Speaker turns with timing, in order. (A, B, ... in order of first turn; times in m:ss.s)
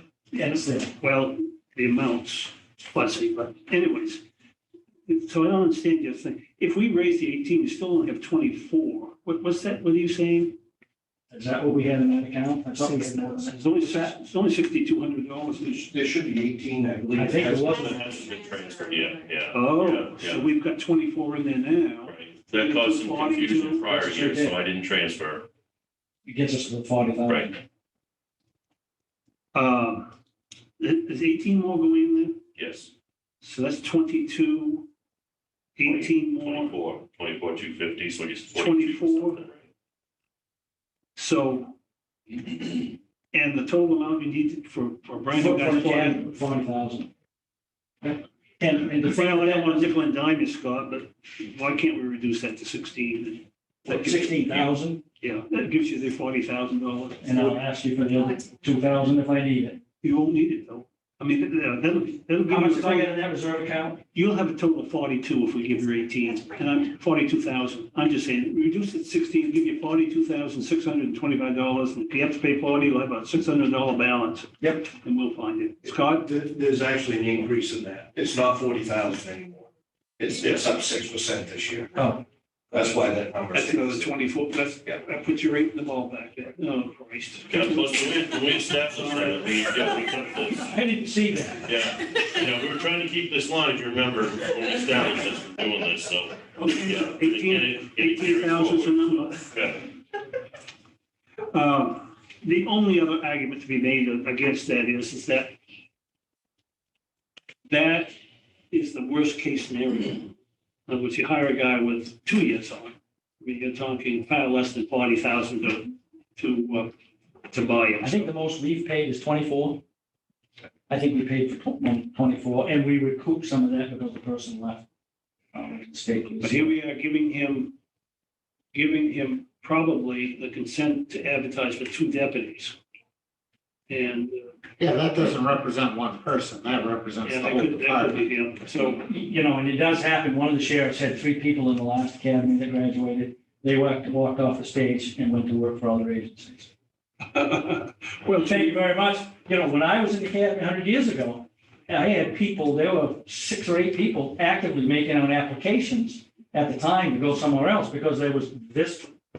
0:00.3-0:00.9 A
0:01.0-0:04.2 B
0:05.1-0:10.6 B
0:11.3-0:14.1 A
0:13.2-0:15.8 B
0:15.6-0:17.9 C
0:17.1-0:18.0 A
0:17.6-0:20.4 D
0:19.5-0:23.9 B
0:22.0-0:25.5 D
0:23.9-0:24.6 A
0:26.2-0:27.6 A
0:27.2-0:27.5 D
0:29.5-0:30.1 B
0:30.8-0:32.4 B
0:32.6-0:32.9 D
0:33.4-0:34.9 B
0:35.8-0:36.8 B
0:35.8-0:39.6 D
0:38.5-0:39.4 B
0:41.2-0:41.8 B
0:43.3-0:46.4 B
0:45.4-0:47.1 A
0:48.0-0:49.9 A
0:49.0-0:57.6 B
0:53.9-0:55.0 A
0:57.2-0:59.8 A
1:00.0-1:03.1 B
1:02.5-1:04.0 A
1:04.1-1:16.3 B
1:14.6-1:14.8 A
1:15.8-1:19.7 C
1:20.2-1:21.9 C
1:21.9-1:22.2 A
1:22.7-1:24.1 C
1:23.5-1:28.2 B
1:27.5-1:30.7 D
1:28.9-1:29.5 B
1:30.6-1:31.7 A
1:31.6-1:39.9 D
1:36.6-1:39.5 B
1:41.5-1:45.6 B
1:47.7-1:48.2 B
1:48.7-1:50.3 B
1:50.9-1:56.9 B
1:57.5-1:58.3 B
1:58.0-1:59.8 A
2:00.9-2:04.8 A
2:05.5-2:06.7 A
2:06.4-2:07.7 B
2:08.7-2:12.8 B
2:13.9-2:14.4 B
2:14.8-2:18.2 E
2:17.2-2:19.1 B
2:18.8-2:26.7 A
2:27.3-2:28.7 B
2:28.4-2:39.1 A